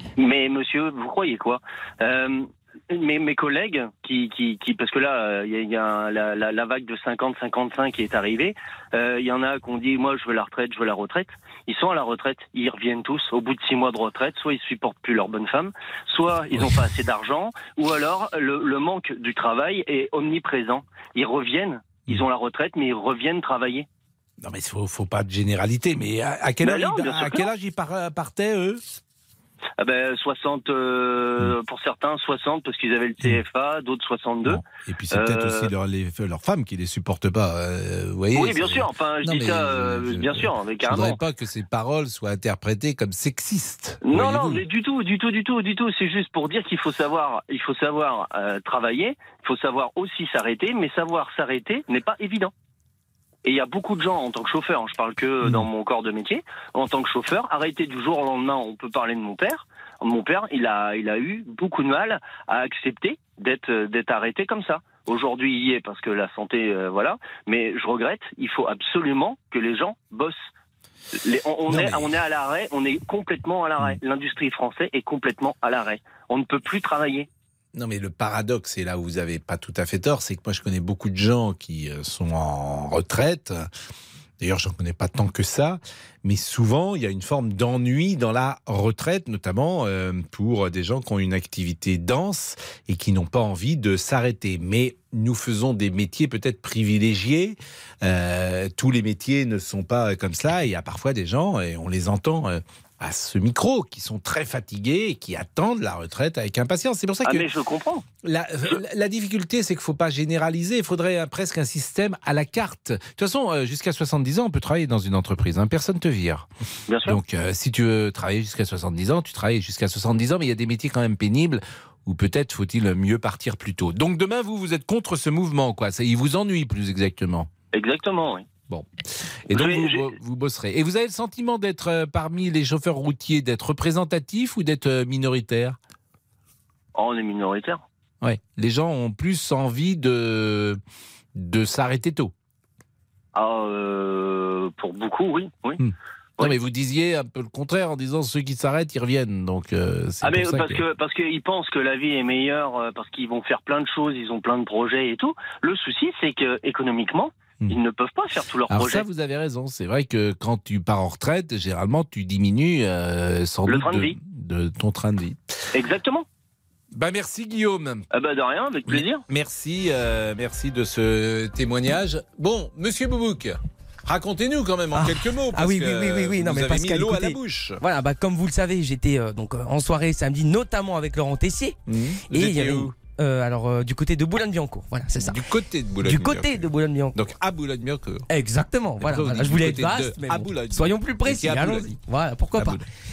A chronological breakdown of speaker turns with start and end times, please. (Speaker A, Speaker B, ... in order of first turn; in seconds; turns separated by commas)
Speaker A: 0.2-23.9, Speaker B: 24.4-28.8, Speaker A: 26.6-27.5, Speaker A: 29.8-34.6, Speaker B: 34.5-44.6, Speaker A: 35.1-35.7, Speaker A: 38.4-41.2, Speaker A: 44.1-52.5, Speaker A: 53.4-70.5, Speaker A: 71.2-77.3, Speaker B: 71.7-72.1, Speaker B: 77.8-83.7, Speaker B: 84.4-107.5, Speaker A: 107.2-108.0, Speaker B: 108.2-116.5, Speaker A: 116.9-117.2, Speaker B: 117.0-127.5, Speaker A: 127.7-128.5, Speaker B: 129.5-135.8, Speaker A: 129.5-130.0, Speaker A: 136.9-137.8, Speaker B: 138.2-140.8, Speaker B: 141.3-142.3, Speaker A: 143.3-145.8, Speaker B: 145.8-150.8, Speaker A: 150.2-159.0, Speaker B: 158.7-165.4, Speaker A: 163.7-164.1, Speaker A: 165.7-166.3, Speaker B: 166.9-168.1, Speaker A: 168.1-169.2, Speaker B: 168.9-177.8, Speaker C: 174.9-181.8, Speaker B: 181.9-182.9, Speaker C: 182.3-185.4, Speaker B: 185.2-188.3, Speaker C: 186.0-187.2, Speaker C: 188.3-192.8, Speaker B: 189.0-191.9, Speaker B: 192.6-192.8